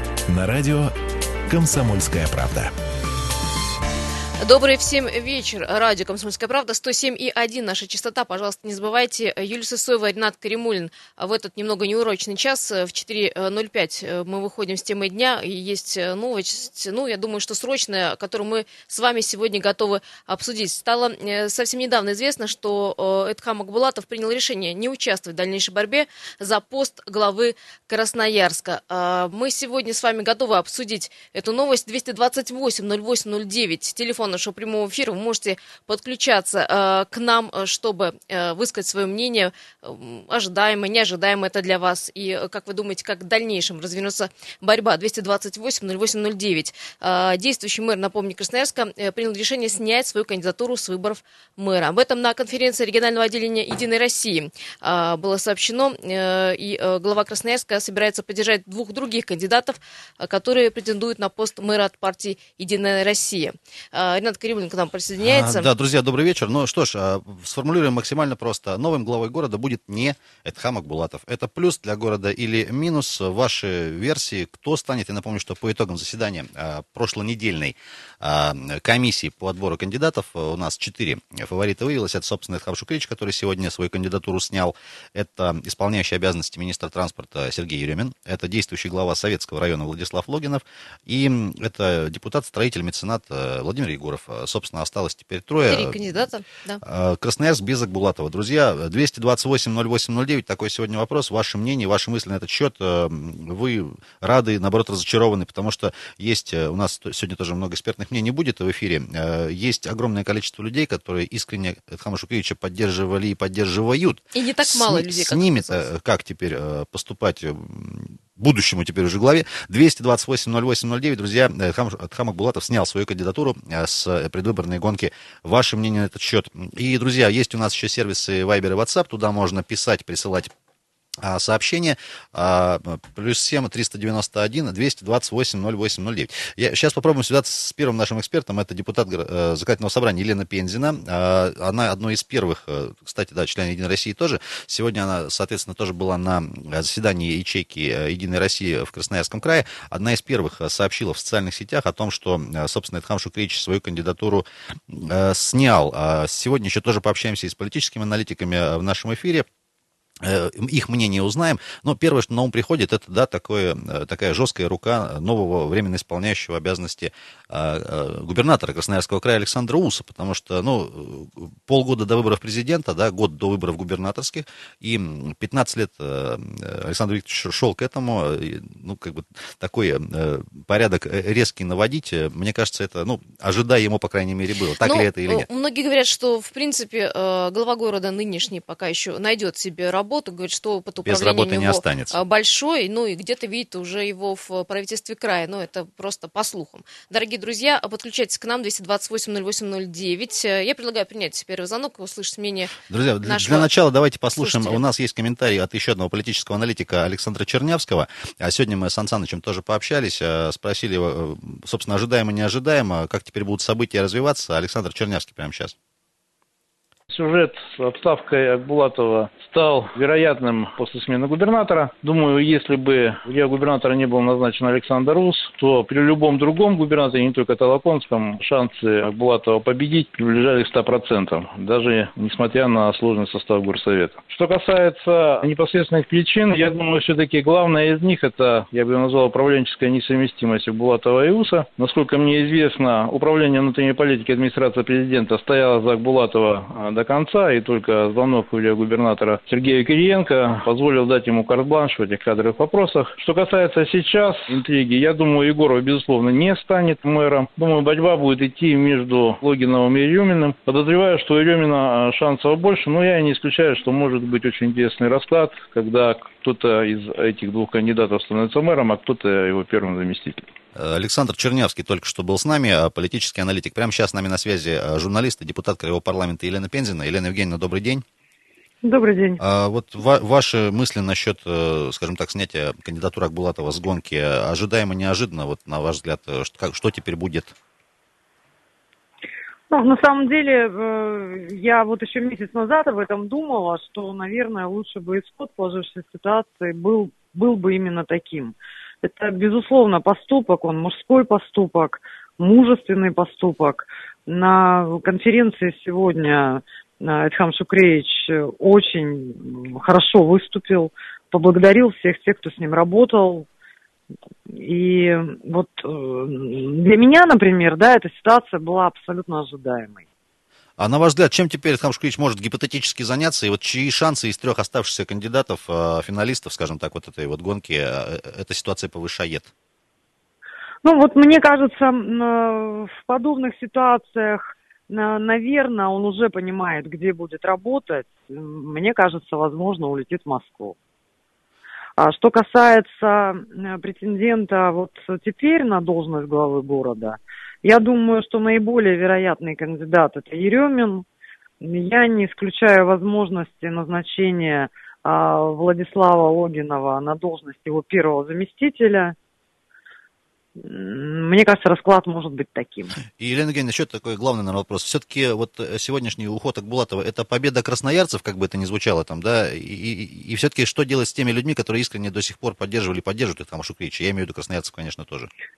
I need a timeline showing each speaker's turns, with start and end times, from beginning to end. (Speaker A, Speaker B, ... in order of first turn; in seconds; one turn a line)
Speaker A: 0.3-1.0
Speaker A: 1.5-2.7
Speaker B: 4.4-65.7
Speaker C: 65.2-96.3
Speaker B: 95.7-96.8
Speaker C: 96.8-130.5
Speaker B: 114.3-115.9
Speaker C: 131.2-159.5
Speaker C: 160.2-185.5
Speaker B: 184.8-203.7
Speaker C: 191.1-192.2
Speaker C: 202.9-215.7
Speaker B: 204.4-204.8
Speaker D: 217.1-270.5
Speaker C: 270.8-278.0
Speaker E: 278.8-279.4
Speaker C: 279.4-287.5
Speaker E: 289.7-313.5
Speaker E: 314.5-320.1
Speaker C: 320.8-329.5
Speaker E: 330.8-340.8
Speaker E: 342.0-351.1
Speaker E: 351.6-359.1
Speaker E: 360.6-362.9
Speaker C: 363.2-375.3